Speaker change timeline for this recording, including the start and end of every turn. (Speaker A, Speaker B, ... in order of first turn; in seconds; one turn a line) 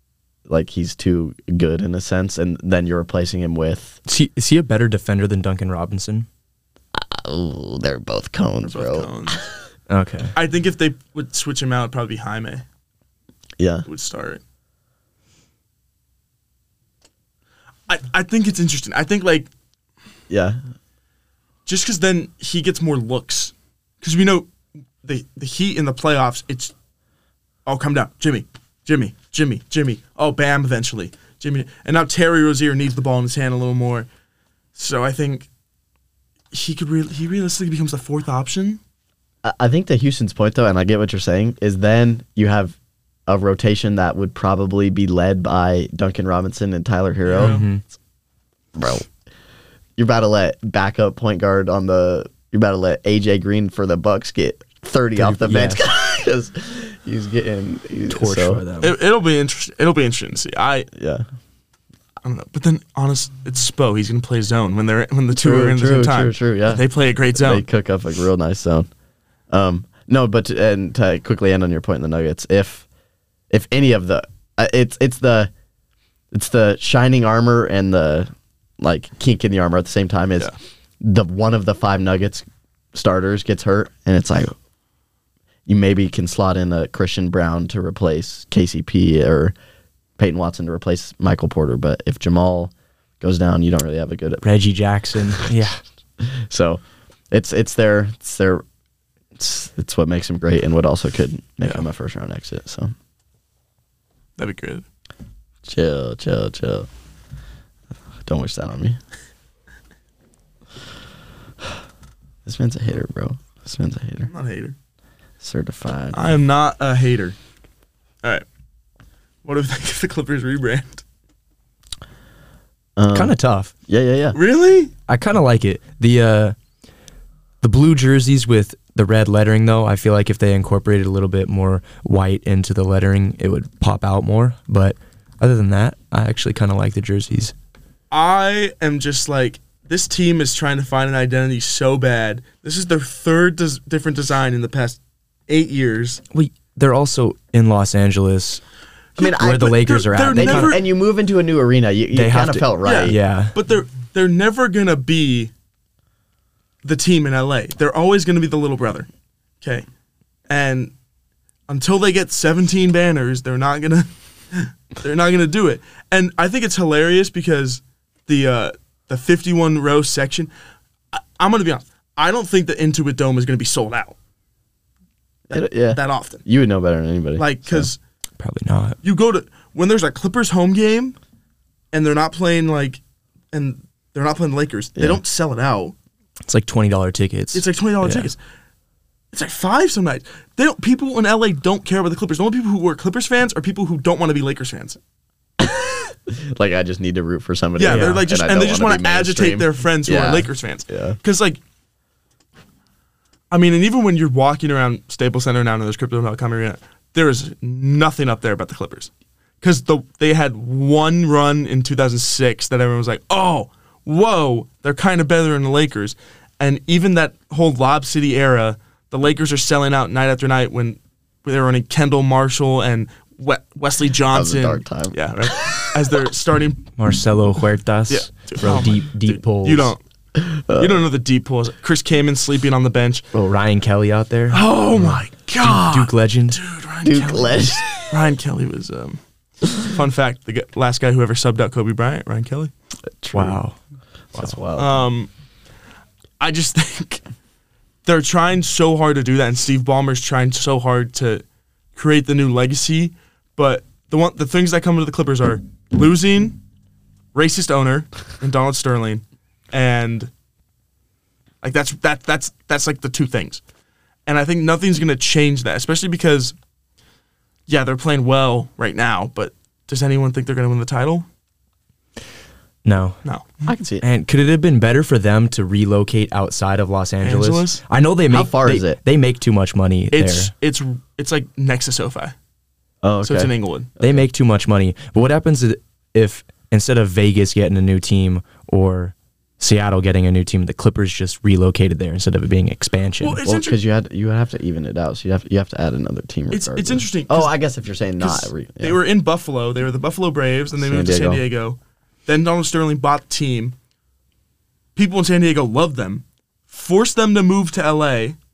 Speaker A: 0.5-4.0
Speaker B: 4.1-6.3
Speaker A: 7.0-9.1
Speaker C: 8.7-9.5
Speaker B: 9.9-10.3
Speaker C: 10.3-12.7
Speaker A: 13.6-13.9
Speaker C: 13.9-14.4
Speaker C: 17.9-19.5
Speaker A: 20.3-20.6
Speaker C: 21.7-24.5
Speaker C: 25.0-26.7
Speaker C: 27.7-34.1
Speaker C: 34.8-35.5
Speaker C: 36.5-38.8
Speaker A: 39.4-42.8
Speaker A: 43.3-47.7
Speaker C: 47.3-47.6
Speaker B: 47.4-47.8
Speaker A: 48.8-49.1
Speaker A: 50.0-58.6
Speaker B: 55.2-55.9
Speaker B: 58.1-59.0
Speaker C: 58.8-60.9
Speaker A: 60.9-61.2
Speaker C: 62.2-67.7
Speaker A: 65.4-68.9
Speaker A: 69.5-72.8
Speaker A: 73.5-75.5
Speaker A: 76.3-78.3
Speaker A: 78.8-84.6
Speaker A: 85.7-89.5
Speaker A: 90.2-94.4
Speaker B: 94.4-95.8
Speaker A: 96.2-98.6
Speaker A: 99.4-102.9
Speaker C: 104.4-104.8
Speaker A: 105.7-106.9
Speaker A: 108.2-109.0
Speaker A: 112.5-114.3
Speaker C: 114.3-114.8
Speaker A: 115.4-116.3
Speaker C: 116.1-117.4
Speaker C: 119.5-121.0
Speaker A: 123.0-123.3
Speaker B: 123.1-123.7
Speaker A: 123.9-124.4
Speaker C: 124.3-124.9
Speaker B: 125.1-126.5
Speaker B: 127.6-137.5
Speaker C: 138.1-146.2
Speaker B: 146.3-148.6
Speaker A: 149.2-153.2
Speaker C: 149.2-150.8
Speaker B: 149.2-150.8
Speaker B: 152.1-153.6
Speaker C: 152.8-155.5
Speaker C: 156.8-159.1
Speaker C: 160.5-160.9
Speaker C: 161.7-170.5
Speaker C: 171.1-174.2
Speaker A: 175.5-177.9
Speaker C: 175.9-176.4
Speaker C: 177.4-178.0
Speaker B: 178.4-179.0
Speaker C: 179.0-181.2
Speaker C: 181.9-183.0
Speaker C: 183.5-185.9
Speaker B: 186.4-188.3
Speaker C: 187.5-188.4
Speaker C: 189.3-195.0
Speaker A: 195.6-201.2
Speaker C: 197.8-201.6
Speaker B: 197.9-198.2
Speaker C: 203.5-209.1
Speaker C: 209.6-226.9
Speaker A: 224.3-225.9
Speaker B: 227.0-229.9
Speaker C: 228.1-230.0
Speaker A: 230.3-231.1
Speaker C: 230.8-233.3
Speaker B: 233.3-236.6
Speaker C: 234.5-239.2
Speaker A: 237.0-238.2
Speaker C: 239.7-242.7
Speaker A: 243.1-243.6
Speaker B: 243.3-243.8
Speaker A: 244.3-244.9
Speaker C: 244.8-245.3
Speaker C: 246.4-247.2
Speaker C: 248.1-251.4
Speaker C: 251.9-256.6
Speaker C: 257.3-260.3
Speaker C: 261.6-263.6
Speaker C: 264.3-266.6
Speaker C: 267.7-271.3
Speaker B: 272.9-273.2
Speaker C: 273.2-273.6
Speaker A: 273.7-274.1
Speaker B: 274.0-280.5
Speaker C: 277.2-277.8
Speaker A: 278.3-279.0
Speaker C: 280.1-282.4
Speaker A: 283.0-284.3
Speaker C: 283.2-283.9
Speaker B: 284.0-293.4
Speaker C: 293.2-293.8
Speaker A: 293.4-299.0
Speaker C: 296.5-297.5
Speaker C: 298.2-303.8
Speaker A: 300.8-301.4
Speaker C: 305.0-308.4